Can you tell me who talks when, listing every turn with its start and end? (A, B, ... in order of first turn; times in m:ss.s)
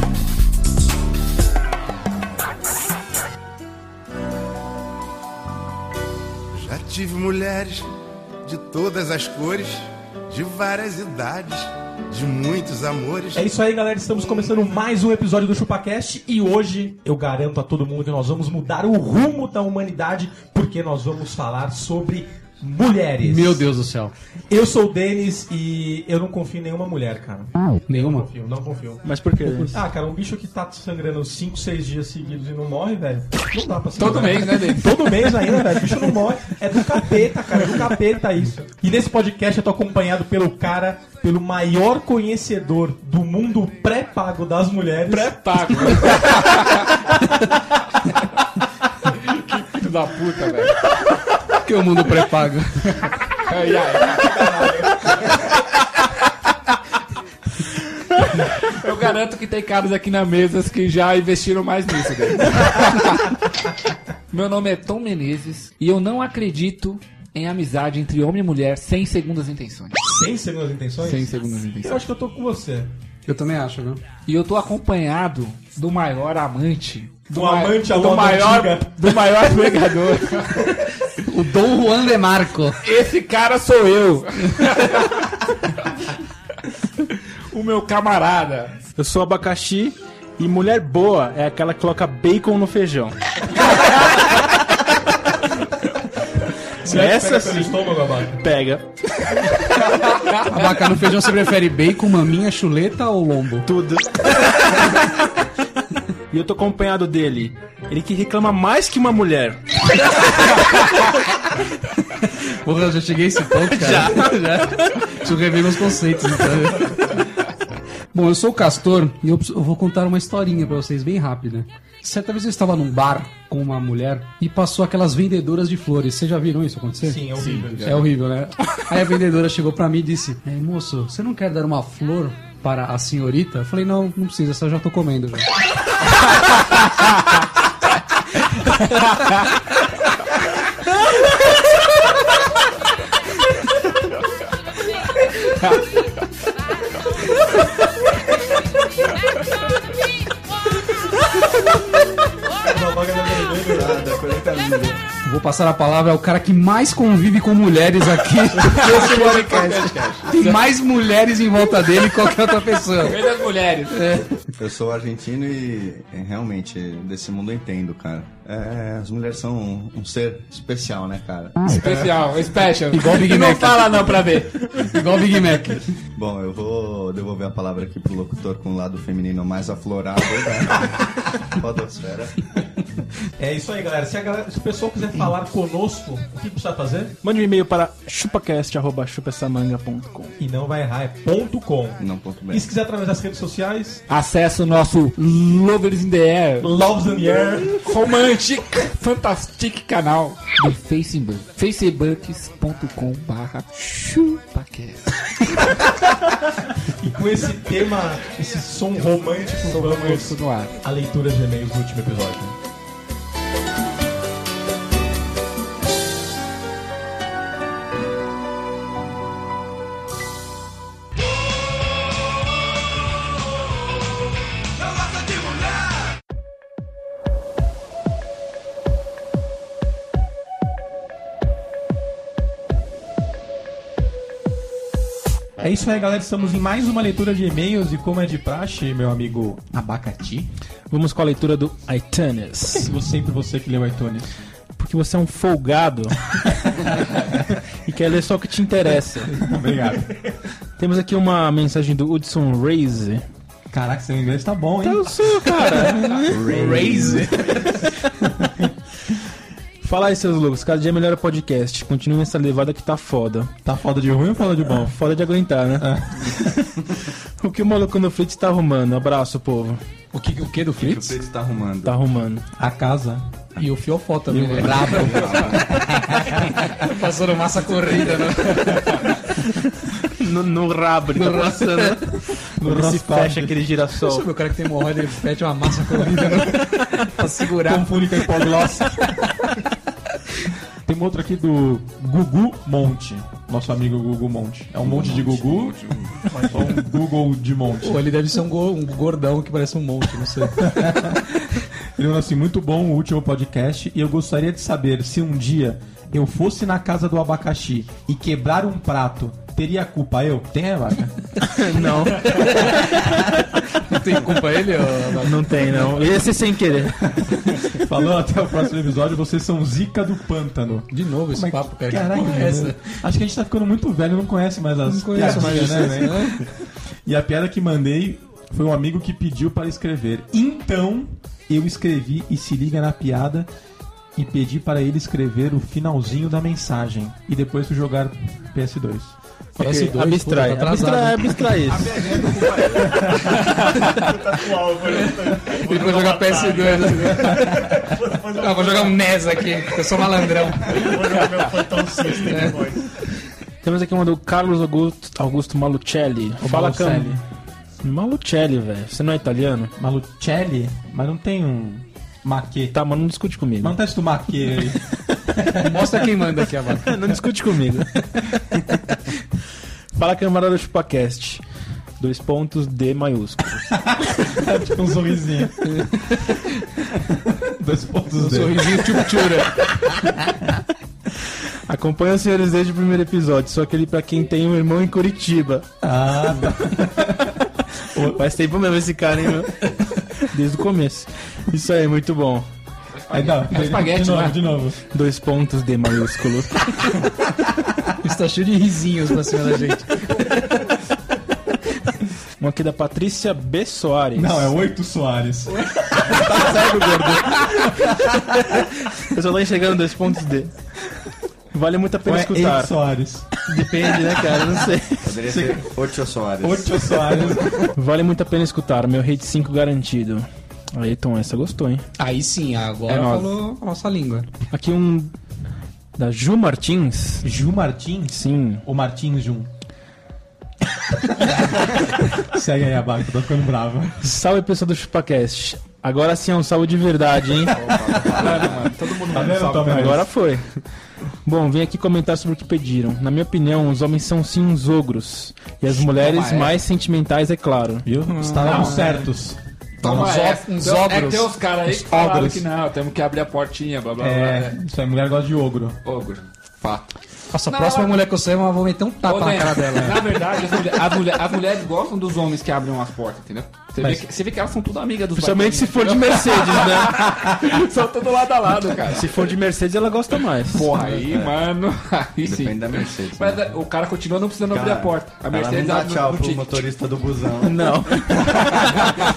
0:06.5-0:07.9 A
0:08.4-0:13.4 A
0:13.4-0:23.6 B
0:23.2-0:24.1 C
0:24.5-0:29.0 B
0:27.9-0:28.3 C
0:29.0-0:29.8 D
0:29.6-0:46.1 B
0:34.0-0:35.3 E
0:45.1-0:47.2 E
0:49.1-0:50.8 E
0:51.6-0:53.1 C
0:53.4-0:55.3 E
0:54.2-0:55.0 B
0:58.3-1:03.5 E
1:04.3-1:10.1 E
1:10.1-1:12.9 B
1:11.0-1:12.0 E
1:13.3-1:14.0 C
1:14.3-1:20.9 E
1:17.3-1:19.4 B
1:21.2-1:22.8 C
1:22.8-1:25.5 E
1:27.5-1:28.8 E
1:29.0-1:33.2 D
1:33.9-1:34.5 D
1:36.8-1:38.4 B
1:36.8-1:40.1 D
1:40.4-1:43.7 C
1:43.7-1:45.1 D
1:46.3-1:50.6 D
1:52.3-1:57.2 C
1:53.7-1:55.1 D
1:58.1-2:07.2 C
2:07.0-2:08.1 B
2:07.4-2:08.1 E
2:07.8-2:15.5 C
2:16.4-2:17.2 E
2:18.8-2:19.5 E
2:25.5-2:25.8 E
2:32.6-2:34.1 B
2:33.6-2:35.0 F
2:35.2-2:43.2 C
2:38.6-2:40.6 E
2:43.0-2:44.1 E
2:43.9-2:44.4 C
2:44.6-2:51.7 F
2:51.7-2:54.7 E
2:52.9-2:54.2 C
2:54.7-2:55.9 C
2:56.2-3:02.4 F
3:03.4-3:07.2 B
3:07.2-3:10.3 D
3:10.4-3:14.0 B
3:12.0-3:12.7 F
3:14.1-3:16.7 E
3:16.6-3:17.8 B
3:17.8-3:26.1 E
3:27.0-3:32.6 B
3:29.5-3:30.8 E
3:55.6-4:00.5 B
4:00.9-4:02.9 D
4:02.7-4:04.3 B
4:04.8-4:09.4 D
4:09.3-4:10.3 B
4:10.8-4:13.2 D
4:13.7-4:15.2 B
4:14.8-4:16.4 D
4:16.3-4:18.7 B
4:16.4-4:17.9 C
4:16.6-4:17.2 F
4:19.8-4:23.5 D
4:23.6-4:25.0 B
4:24.8-4:26.7 D
4:25.8-4:26.7 B
4:27.4-4:29.8 D
4:30.1-4:31.1 C
4:30.8-4:32.0 F
4:31.8-4:32.5 D
4:32.6-4:33.2 B
4:33.6-4:39.1 C
4:34.3-4:36.4 B
4:35.0-4:35.6 E
4:35.2-4:35.6 F
4:38.6-4:39.0 E
4:40.0-4:44.3 D
4:41.2-4:42.0 C
4:42.6-4:43.6 B
4:44.0-4:48.0 C
4:45.9-4:46.9 B
4:47.6-4:49.2 B
4:50.8-4:55.8 B
4:54.8-4:56.2 F
4:54.9-4:56.1 E
4:56.3-4:58.0 B
4:57.8-5:00.7 C
5:00.6-5:11.3 B
5:11.4-5:13.4 D
5:13.8-5:16.0 C
5:15.1-5:17.7 D
5:17.7-5:26.5 B
5:20.9-5:23.0 C
5:24.8-5:26.5 C
5:27.0-5:33.5 B
5:34.2-5:39.2 B
5:39.6-5:42.0 D
5:39.6-5:41.5 C
5:41.7-5:44.1 E
5:41.9-5:49.0 B
5:44.8-5:51.0 C
5:46.3-5:47.4 E
5:50.7-5:52.9 B
5:52.2-5:52.7 C
5:53.6-5:57.2 D
5:56.4-5:57.2 B
5:57.8-5:59.7 D
5:59.8-6:02.8 B
6:02.7-6:03.8 D
6:03.6-6:05.9 B
6:05.5-6:06.9 C
6:06.8-6:08.1 D
6:10.0-6:11.4 D
6:12.0-6:14.3 D
6:13.9-6:15.9 B
6:15.6-6:16.6 C
6:17.2-6:19.3 B
6:18.1-6:19.8 C
6:21.7-6:25.7 D
6:25.8-6:27.3 B
6:26.3-6:27.4 D
6:27.9-6:28.2 B
6:28.0-6:32.5 D
6:32.9-6:34.4 E
6:33.1-6:34.8 B
6:34.9-6:37.2 D
6:38.0-6:40.5 C
6:42.4-6:44.6 D
6:44.1-6:47.5 B
6:46.0-6:50.5 D
6:51.5-6:52.8 D
6:52.0-6:53.3 B
6:53.4-6:55.2 D
6:55.0-6:57.6 F
6:55.2-6:55.7 B
6:56.4-6:57.7 B
6:57.7-7:01.8 D
7:02.0-7:04.3 C
7:02.9-7:03.4 E
7:04.5-7:05.1 D
7:06.0-7:07.2 D
7:07.2-7:09.5 B
7:08.1-7:08.6 D
7:11.1-7:14.0 B
7:14.0-7:18.0 D
7:17.6-7:18.6 F
7:18.0-7:19.9 E
7:19.1-7:20.1 B
7:19.6-7:20.5 D
7:21.2-7:27.9 D
7:25.7-7:26.6 E
7:27.8-7:30.1 B
7:28.2-7:29.0 C
7:28.3-7:29.0 E
7:29.8-7:31.3 C
7:29.8-7:34.6 E
7:31.7-7:32.4 B
7:34.0-7:35.8 B
7:35.8-7:36.9 E
7:37.3-7:40.1 C
7:37.5-7:38.0 E
7:39.0-7:49.3 E
7:45.2-7:47.5 D
7:48.9-7:50.7 D
7:50.5-7:56.6 E
7:51.1-7:51.3 F
7:52.2-7:53.5 F
7:54.5-7:58.8 F
7:57.4-7:58.4 D
7:58.2-7:58.9 E